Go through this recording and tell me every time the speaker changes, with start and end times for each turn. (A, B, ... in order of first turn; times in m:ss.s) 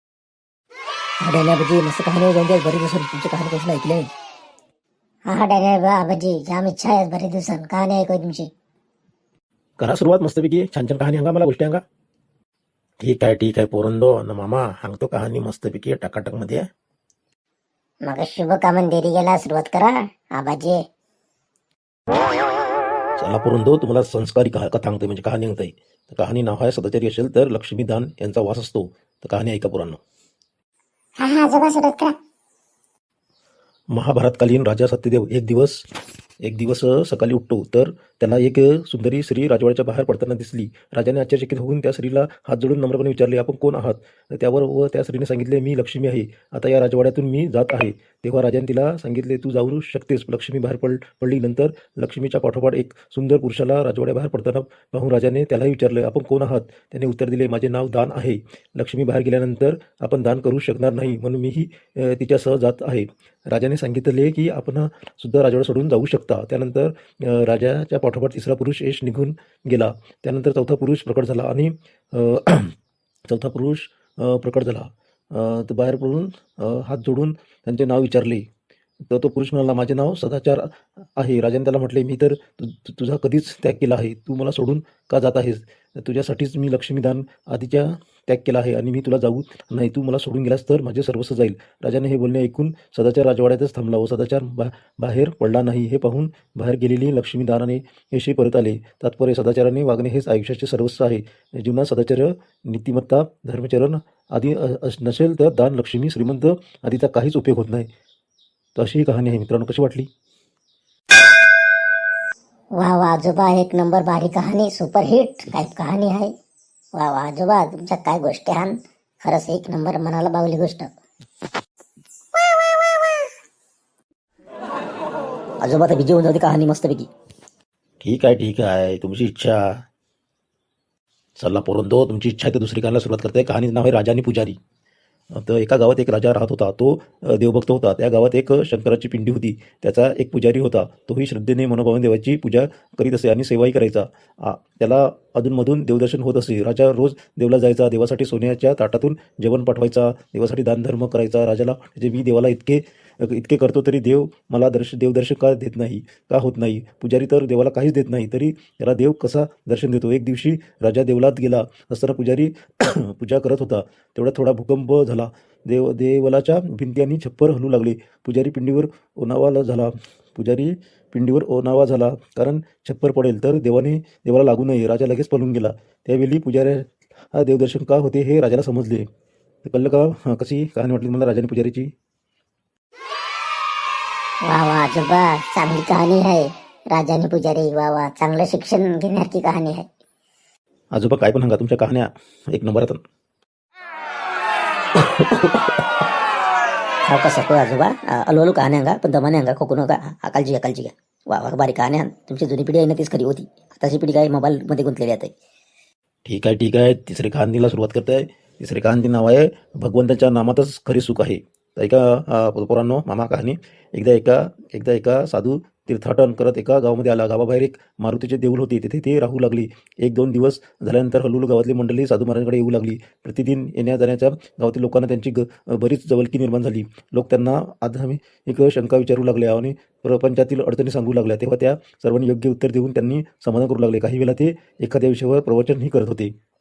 0:01.2-0:04.1 A
0:05.3-0:08.5 B
0:09.8-0:11.8 C
0:13.0-0:16.7 C
0:18.0-0:20.8 B
0:23.2-0:30.0 C
0:31.2-0:32.1 B
0:33.9-0:35.8 C
0:36.4-1:12.7 C
1:13.3-1:18.4 C
1:19.0-1:47.9 C
1:48.8-1:50.1 C
1:52.8-1:56.3 B
1:56.9-2:00.9 B
2:05.6-2:07.1 A
2:08.0-2:09.8 C
2:11.4-2:14.6 C
2:15.3-2:59.0 C
2:59.6-3:01.9 C
3:04.5-3:09.9 B
3:10.9-3:13.0 C
3:17.0-3:25.3 A
3:26.2-3:56.3 C